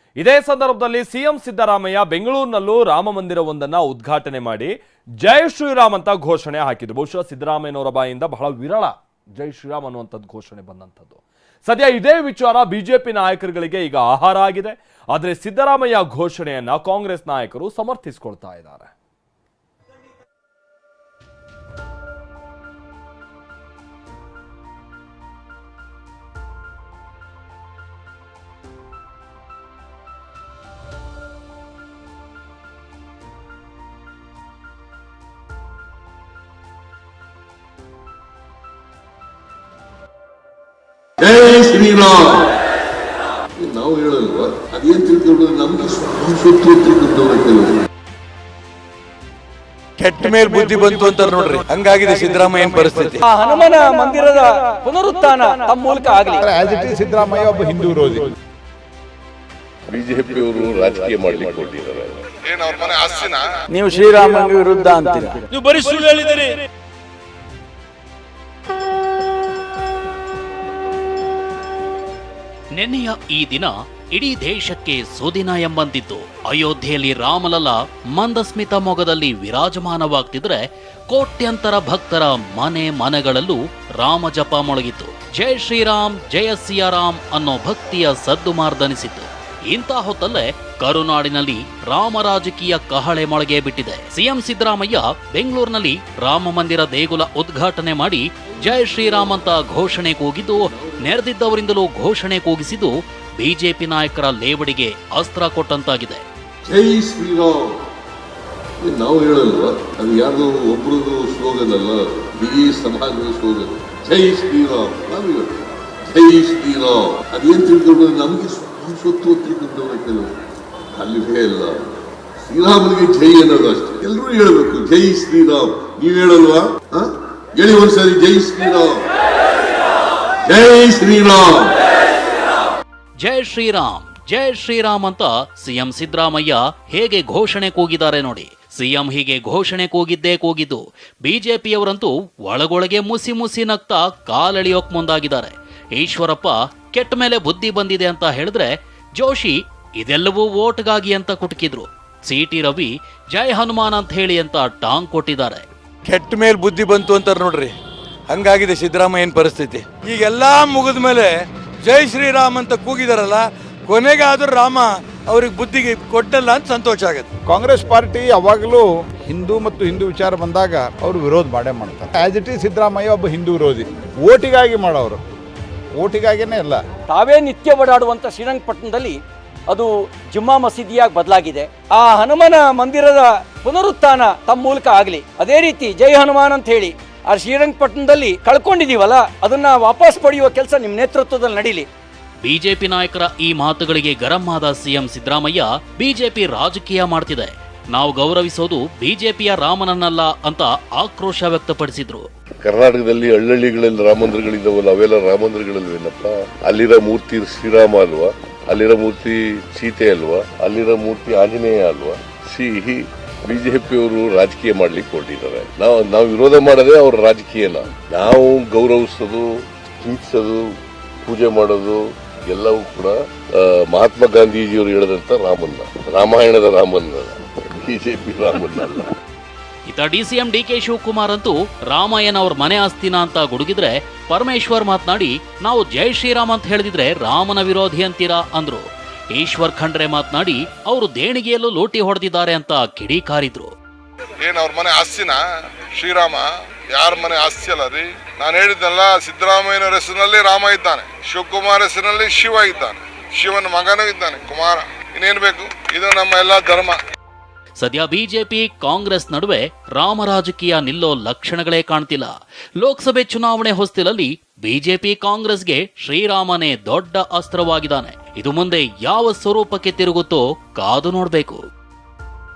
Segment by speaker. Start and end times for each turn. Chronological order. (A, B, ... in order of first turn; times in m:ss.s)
0:00.2-0:18.9 A
0:41.2-0:42.6 B
0:43.6-0:47.8 B
0:50.0-0:53.2 C
0:53.2-0:56.5 D
0:56.4-0:58.3 E
0:59.9-1:02.2 B
1:02.4-1:03.4 F
1:12.7-1:46.2 G
1:38.5-1:39.6 B
1:40.5-1:41.2 B
1:46.6-1:47.8 B
1:48.8-2:00.4 B
2:00.9-2:09.1 B
2:10.4-2:11.8 B
2:13.2-2:35.6 G
2:36.0-2:37.7 C
2:38.3-2:47.3 C
2:47.5-2:55.2 E
2:56.0-2:56.8 E
2:57.1-3:11.9 D
3:12.4-3:22.3 G
3:22.6-3:40.7 B
3:41.2-3:49.1 B
3:49.9-4:03.7 G
4:04.4-4:05.4 F
4:05.9-4:17.0 F
4:17.8-4:31.6 G